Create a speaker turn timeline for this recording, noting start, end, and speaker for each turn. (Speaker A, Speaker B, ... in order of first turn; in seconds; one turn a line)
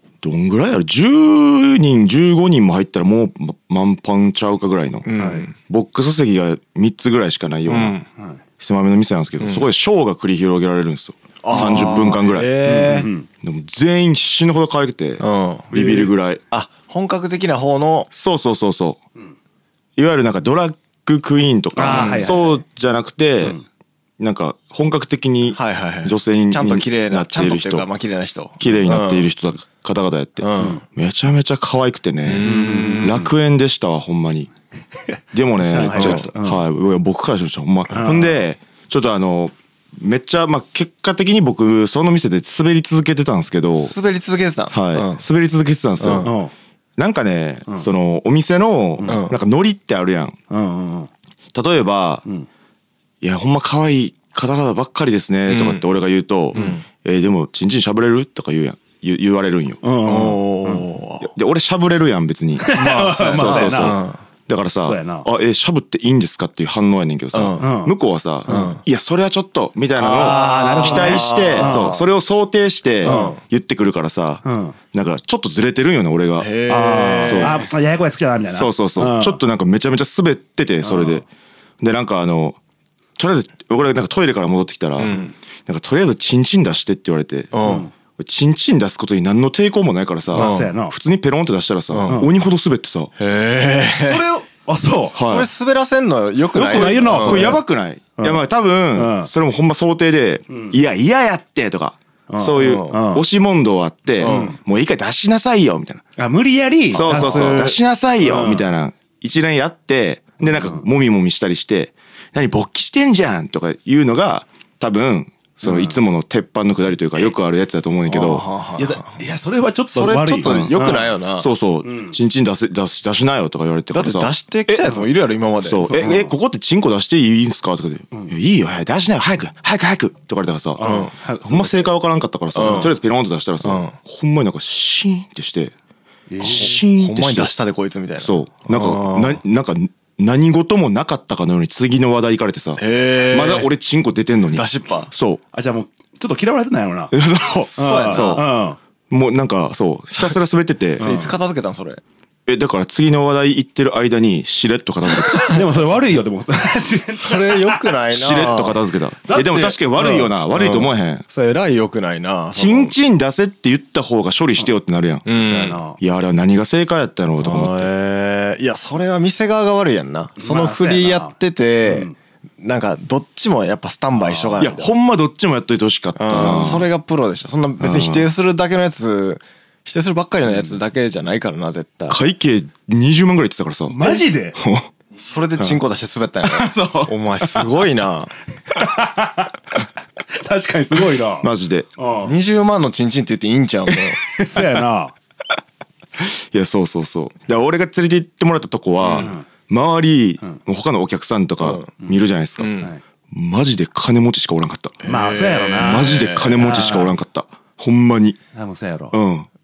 Speaker A: 0.2-5.1
Speaker B: 5.1-5.5
Speaker C: 5.2-5.5
Speaker A: 5.6-8.0
Speaker B: 7.7-8.1
Speaker A: 8.6-12.5
Speaker B: 9.4-9.7
Speaker B: 11.4-13.1
Speaker C: 12.6-13.3
Speaker A: 13.4-16.4
Speaker B: 15.2-15.7
Speaker C: 15.7-16.1
Speaker B: 16.5-18.1
Speaker A: 18.1-19.0
Speaker A: 20.0-23.6
Speaker C: 21.8-22.6
Speaker B: 21.8-22.5
Speaker A: 24.2-27.9
Speaker B: 25.5-29.3
Speaker A: 28.6-34.5
Speaker B: 30.4-30.8
Speaker B: 32.3-33.1
Speaker C: 32.3-33.3
Speaker C: 35.1-36.6
Speaker A: 35.3-43.9
Speaker B: 35.9-36.3
Speaker C: 37.9-38.4
Speaker B: 43.8-45.2
Speaker A: 44.7-46.3
Speaker B: 46.0-46.3
Speaker C: 46.2-46.5
Speaker A: 47.0-50.4
Speaker B: 49.0-49.4
Speaker C: 50.5-51.1
Speaker A: 51.5-52.2
Speaker A: 53.2-59.8
Speaker B: 55.5-55.8
Speaker B: 56.5-56.8
Speaker C: 59.8-60.9
Speaker B: 60.0-61.3
Speaker A: 61.2-76.5
Speaker C: 62.6-64.0
Speaker B: 62.7-64.2
Speaker C: 64.8-65.3
Speaker B: 67.3-67.7
Speaker C: 67.6-67.9
Speaker B: 68.5-68.8
Speaker B: 70.0-72.0
Speaker C: 70.2-72.0
Speaker C: 73.0-73.4
Speaker B: 73.0-73.4
Speaker C: 74.4-74.8
Speaker B: 76.4-77.7
Speaker C: 76.7-79.4
Speaker A: 77.2-77.6
Speaker A: 78.5-81.2
Speaker C: 80.8-81.2
Speaker A: 81.8-82.6
Speaker A: 83.2-87.5
Speaker B: 85.0-85.3
Speaker B: 87.5-87.9
Speaker C: 87.6-87.9
Speaker A: 88.2-93.1
Speaker C: 90.3-90.9
Speaker B: 90.3-90.7
Speaker B: 91.9-92.2
Speaker B: 93.2-94.2
Speaker C: 94.0-95.2
Speaker A: 95.1-95.5
Speaker B: 95.2-97.6
Speaker C: 96.5-97.6
Speaker A: 96.7-106.0
Speaker C: 98.9-99.3
Speaker C: 102.3-103.2
Speaker B: 102.5-103.0
Speaker B: 104.2-104.5
Speaker C: 104.2-104.6
Speaker C: 106.2-108.6
Speaker A: 106.9-118.5
Speaker B: 106.9-107.8
Speaker C: 110.5-110.8
Speaker C: 115.6-115.9
Speaker B: 118.1-119.2
Speaker C: 118.8-121.2
Speaker B: 119.9-121.5
Speaker A: 121.4-124.3
Speaker C: 121.8-122.2
Speaker B: 123.9-126.2
Speaker C: 124.7-125.1
Speaker A: 125.6-135.7
Speaker C: 125.8-126.3
Speaker C: 130.8-131.9
Speaker B: 130.8-131.1
Speaker B: 132.5-132.9
Speaker B: 133.6-134.0
Speaker C: 136.3-136.7
Speaker A: 136.4-137.5
Speaker B: 136.4-139.4
Speaker A: 138.2-145.4
Speaker B: 142.8-143.7
Speaker B: 144.5-145.1
Speaker C: 145.5-147.1
Speaker A: 147.1-148.4
Speaker B: 147.6-148.4
Speaker C: 147.8-148.8
Speaker A: 149.1-151.1
Speaker C: 151.0-151.3
Speaker B: 151.0-152.0
Speaker A: 152.5-155.6
Speaker B: 155.3-155.6
Speaker C: 155.5-157.8
Speaker B: 157.1-158.8
Speaker A: 158.1-161.2
Speaker C: 159.3-159.8
Speaker B: 159.9-163.0
Speaker A: 162.6-165.2
Speaker B: 165.2-165.8
Speaker C: 165.3-166.0
Speaker A: 166.0-167.9
Speaker B: 167.4-172.1
Speaker C: 170.4-172.2
Speaker B: 172.6-174.9
Speaker C: 174.2-174.6
Speaker A: 174.6-176.9
Speaker B: 176.2-182.2
Speaker A: 177.8-178.3
Speaker A: 182.1-184.0
Speaker C: 183.9-184.6
Speaker A: 184.6-184.9
Speaker B: 185.2-188.3
Speaker A: 186.4-187.1
Speaker C: 188.7-189.5
Speaker C: 190.3-192.3
Speaker A: 191.4-191.9
Speaker B: 192.2-194.3
Speaker C: 194.3-195.1
Speaker A: 196.2-202.7
Speaker B: 199.0-199.3
Speaker C: 199.2-199.5
Speaker B: 201.6-201.9
Speaker B: 202.6-202.9
Speaker A: 203.3-205.0
Speaker B: 205.0-207.0
Speaker C: 205.0-207.1
Speaker A: 205.8-208.4
Speaker C: 208.5-209.2
Speaker A: 209.1-209.5